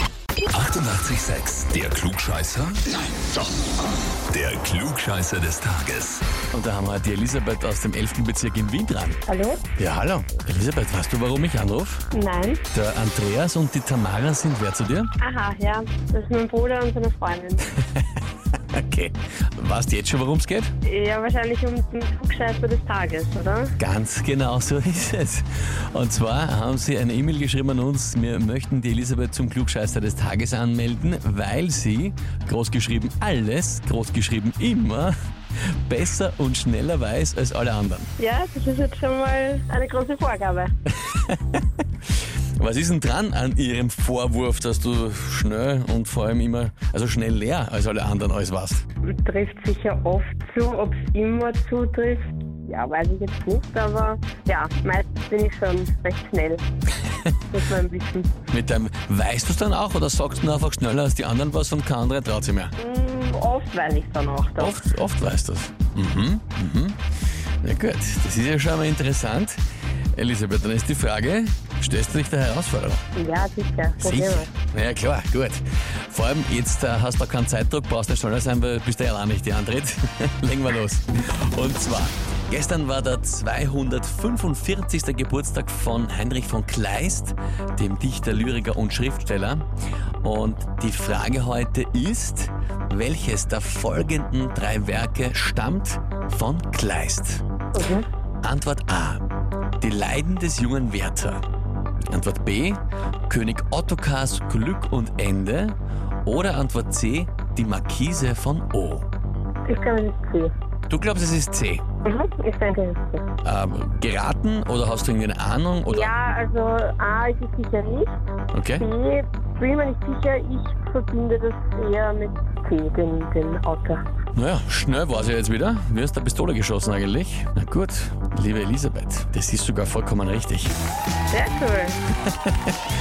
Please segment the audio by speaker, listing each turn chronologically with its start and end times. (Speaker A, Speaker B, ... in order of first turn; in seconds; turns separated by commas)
Speaker A: 0.5-2.8, Speaker A: 4.3-6.2, Speaker B: 6.5-9.2, Speaker C: 9.3-9.6, Speaker B: 9.8-12.0, Speaker C: 12.1-12.6, Speaker B: 12.7-15.1, Speaker C: 15.2-17.7, Speaker B: 17.9-20.7, Speaker C: 20.8-23.7, Speaker B: 23.8-35.1, Speaker B: 35.7-38.1, Speaker C: 38.2-40.7, Speaker B: 41.0-41.6, Speaker B: 42.6-48.8, Speaker C: 49.0-56.6, Speaker C: 57.5-58.3, Speaker B: 58.5-62.7, Speaker C: 62.8-64.8, Speaker B: 64.6-67.0, Speaker B: 67.6-69.6, Speaker B: 70.1-73.0, Speaker C: 73.1-74.5, Speaker B: 74.0-89.6, Speaker B: 90.2-97.4, Speaker C: 97.7-98.0, Speaker B: 98.4-99.2, Speaker B: 99.8-101.4, Speaker B: 102.1-109.1, Speaker C: 109.6-110.5, Speaker B: 110.9-111.8, Speaker C: 112.0-113.2, Speaker B: 113.4-116.1, Speaker C: 115.9-118.1, Speaker B: 118.5-118.8, Speaker C: 118.8-124.0, Speaker B: 124.3-130.7, Speaker C: 131.3-132.0, Speaker B: 132.2-132.8